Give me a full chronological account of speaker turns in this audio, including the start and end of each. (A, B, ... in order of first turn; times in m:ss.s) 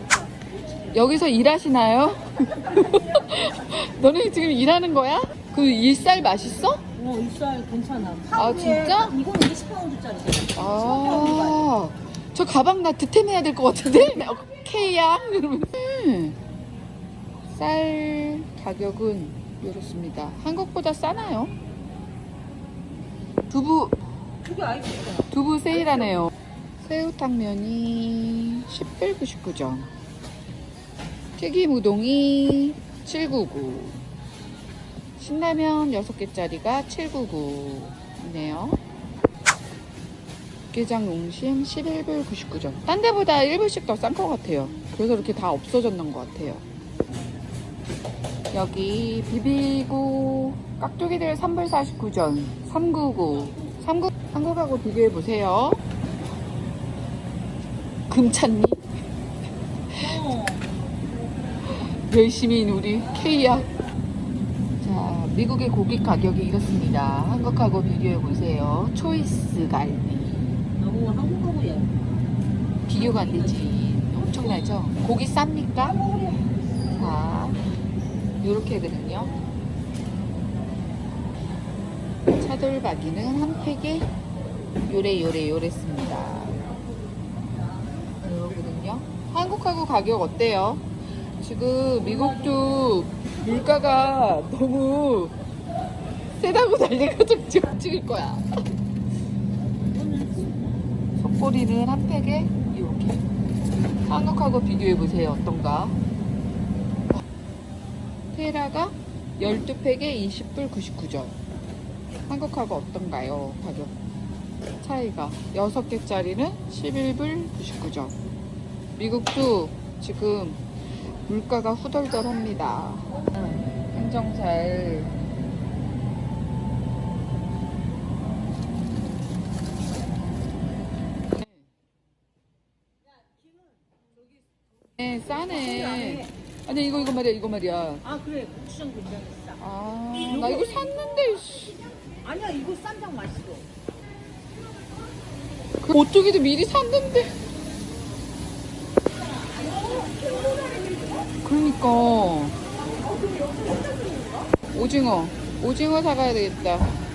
0:00.9-0:06.8 A
0:07.0-0:11.7 B
0:08.4-0:09.2 A
0:10.6-0:16.4 A
0:17.5-0:21.5 A
0:23.5-0:24.0 A
0:24.4-0:25.3 B
0:25.3-0:26.3 A
0:25.9-0:26.1 B
0:26.8-0:29.9 A
0:31.4-0:34.0 A
0:35.2-0:38.8 A
0:40.7-0:46.6 A
0:48.5-0:55.8 A
0:58.1-0:58.8 A
0:59.9-1:00.2 A
1:00.0-1:00.7 B
1:01.7-1:03.7 A
1:04.8-1:10.4 A
1:10.8-1:12.1 B
1:12.9-1:16.0 A
1:13.0-1:13.7 B
1:15.9-1:16.5 B
1:17.0-1:17.6 A
1:18.4-1:19.3 A
1:22.4-1:24.1 A
1:24.9-1:26.6 A
1:28.2-1:30.8 A
1:31.4-1:35.3 A
1:36.4-1:38.4 A
1:39.7-1:40.7 B
1:41.2-1:43.3 A
1:44.1-1:46.0 A
1:48.3-1:51.4 A
1:52.3-1:53.9 A
1:54.8-1:58.1 A
1:59.0-2:00.6 A
2:01.2-2:05.1 A
2:15.0-2:18.0 A
2:15.3-2:16.3 B
2:18.0-2:19.6 B
2:19.6-2:21.8 A
2:20.1-2:20.8 B
2:22.2-2:23.7 B
2:25.8-2:27.4 A
2:29.4-2:31.3 B
2:31.4-2:32.6 A
2:33.0-2:34.5 B
2:34.7-2:36.9 A